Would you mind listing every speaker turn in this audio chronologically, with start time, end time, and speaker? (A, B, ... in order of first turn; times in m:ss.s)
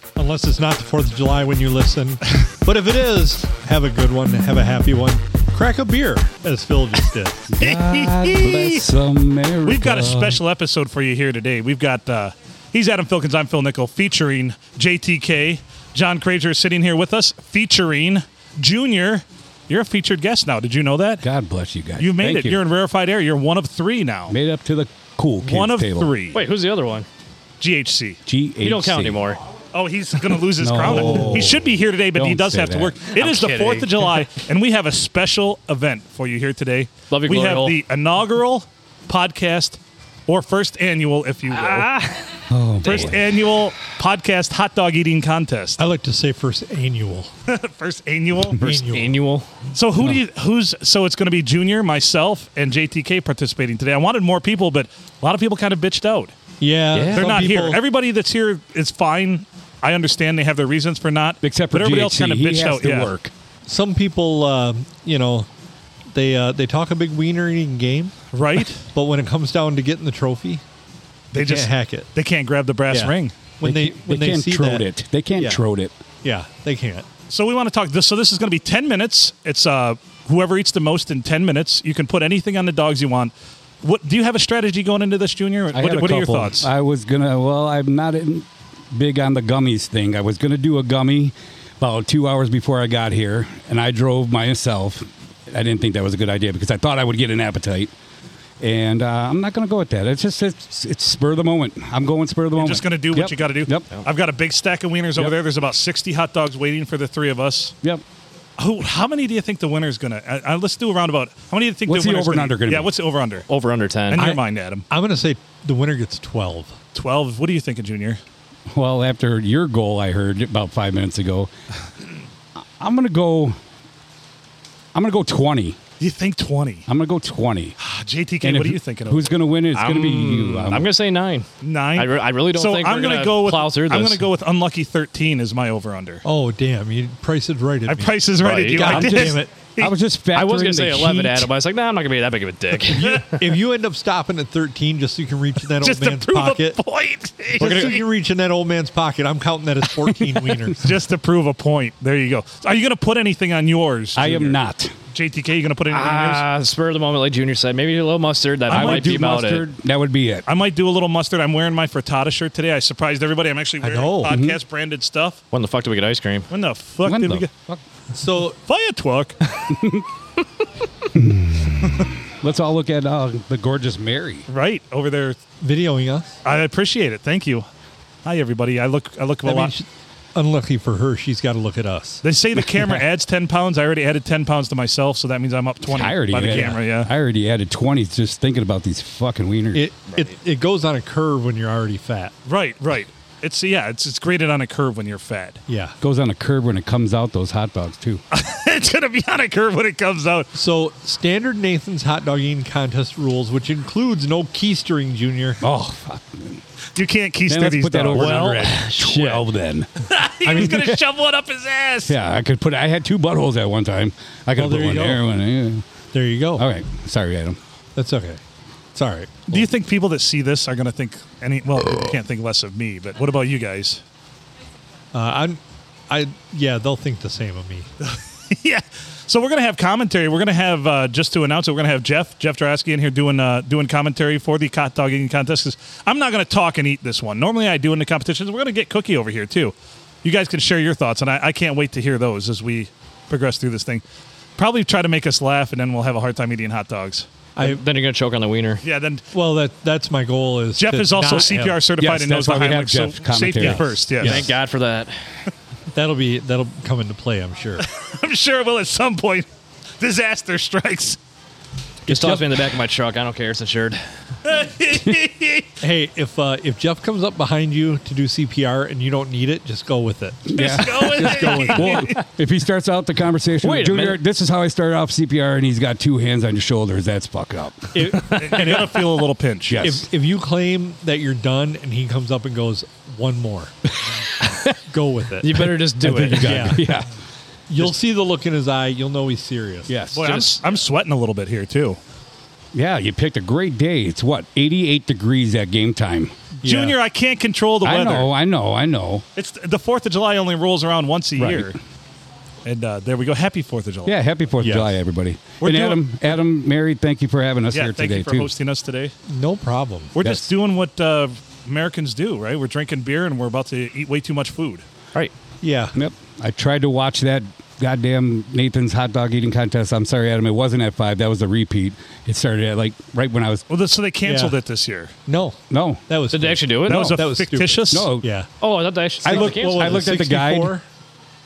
0:00.2-0:07.5 A
0:07.5-0:10.4 B
0:07.6-0:08.8 C
0:09.6-0:21.2 C
0:10.0-0:10.3 A
0:21.2-0:22.6 B
0:22.0-0:24.4 C
0:24.3-0:26.1 B
0:25.4-0:26.4 C
0:26.3-0:27.1 D
0:27.6-0:28.2 C
0:28.3-0:29.3 B
0:28.6-0:29.4 D
0:29.7-0:42.0 C
0:30.6-0:33.0 B
0:33.1-0:34.2 D
0:37.1-0:37.8 D
0:41.5-0:43.1 D
0:42.5-0:43.3 B
0:42.8-0:45.8 C
0:45.8-0:47.3 A
0:47.5-0:48.6 C
0:48.5-0:49.2 A
0:48.9-0:49.6 D
0:49.8-0:56.4 C
0:56.6-0:57.8 A
0:56.9-0:57.3 D
0:57.1-1:03.1 C
1:01.4-1:03.3 B
1:03.7-1:05.5 A
1:06.1-1:08.2 A
1:08.3-1:08.9 C
1:08.9-1:10.6 A
1:11.3-1:12.1 A
1:11.3-1:13.4 C
1:12.9-1:14.8 A
1:13.6-1:16.0 B
1:15.4-1:15.6 A
1:16.2-1:17.1 A
1:17.3-1:26.7 C
1:25.7-1:37.9 B
1:38.6-1:43.9 B
1:42.6-1:47.7 C
1:48.6-1:53.5 C
1:51.9-1:52.9 B
1:53.5-1:54.2 D
1:54.1-1:54.9 C
1:54.2-1:56.8 A
1:56.9-1:58.2 C
1:58.7-2:01.5 B
2:02.8-2:03.6 B
2:04.9-2:05.8 B
2:06.0-2:06.9 C
2:06.9-2:07.8 B
2:07.8-2:09.4 C
2:08.4-2:10.9 B
2:09.7-2:14.2 D
2:11.6-2:16.2 C
2:16.2-2:19.5 A
2:17.9-2:20.0 C
2:18.4-2:19.0 D
2:18.9-2:21.5 B
2:20.3-2:23.5 D
2:22.9-2:26.8 A
2:22.9-2:23.3 C
2:25.8-2:28.0 C
2:27.6-2:30.8 A
2:27.6-2:27.9 D
2:30.8-2:34.6 C
2:34.2-2:34.9 B
2:35.1-2:36.5 C
2:35.9-2:39.6 D
2:38.7-2:39.3 C
2:38.7-2:40.4 B
2:40.5-2:45.4 C
2:43.8-2:44.3 A
2:44.3-2:44.6 B
2:45.5-2:46.5 D
2:46.5-2:47.5 C
2:47.1-2:47.8 B
2:48.1-2:48.6 A
2:48.6-2:49.4 C
2:49.7-2:50.0 B
2:51.1-2:54.4 B
2:54.5-2:55.4 C
2:55.6-2:56.4 A
2:56.4-2:57.6 C
2:58.2-2:59.7 C
2:59.4-3:02.2 A
3:02.2-3:07.1 C
3:02.6-3:03.0 B
3:05.9-3:09.8 B
3:09.7-3:12.3 A
3:12.4-3:15.6 C
3:15.7-3:16.0 A
3:16.0-3:18.2 B
3:18.3-3:20.5 C
3:20.5-3:25.6 A
3:25.6-3:26.6 B
3:27.0-3:28.9 C
3:27.5-3:29.9 B
3:28.1-3:29.4 D
3:30.1-3:32.2 C
3:30.4-3:31.0 B
3:32.1-3:35.9 B
3:34.6-3:35.2 A
3:36.1-3:36.7 A
3:36.6-3:37.6 B
3:38.0-3:38.4 A
3:39.0-3:39.6 A
3:39.5-3:44.0 C
3:45.1-3:47.9 A
3:48.0-4:04.0 C
4:04.6-4:07.3 C
4:07.6-4:07.8 A
4:07.6-4:08.8 D
4:08.8-4:09.2 C
4:09.3-4:11.8 A
4:10.8-4:14.5 C
4:12.0-4:14.3 B
4:13.6-4:14.5 A
4:14.2-4:15.2 D
4:15.9-4:17.8 A
4:17.8-4:19.5 C
4:20.0-4:21.2 C
4:22.1-4:22.4 B
4:22.1-4:24.0 D
4:24.4-4:25.8 C
4:25.8-4:30.5 A
4:30.5-4:38.0 B
4:30.5-4:32.2 C
4:33.6-4:34.2 D
4:37.9-4:38.9 A
4:38.2-4:39.1 D
4:38.4-4:39.9 C
4:39.7-4:40.1 B
4:39.8-4:43.7 A
4:44.9-4:45.6 A
4:45.4-4:46.7 D
4:46.0-4:47.1 B
4:46.4-4:46.9 A
4:47.7-4:49.9 A
4:49.9-4:50.5 B
4:50.1-4:52.0 C
4:52.7-4:56.4 B
4:56.6-4:57.0 A
4:56.6-4:58.3 C
4:57.8-4:59.2 B
4:59.4-5:01.8 C
5:01.4-5:01.8 B
5:02.6-5:04.2 C
5:04.0-5:08.5 B
5:04.6-5:05.0 A
5:05.6-5:06.3 C
5:07.7-5:09.1 C
5:09.3-5:10.2 A
5:10.1-5:14.8 C
5:10.2-5:10.5 B
5:15.6-5:16.0 A
5:16.0-5:23.6 B
5:23.7-5:25.1 C
5:24.2-5:24.6 A
5:25.3-5:28.5 A
5:25.7-5:26.0 B
5:26.3-5:27.1 D
5:26.9-5:28.1 C
5:26.9-5:27.2 B
5:27.9-5:28.3 B
5:28.6-5:30.1 D
5:29.2-5:30.8 B
5:29.2-5:30.8 A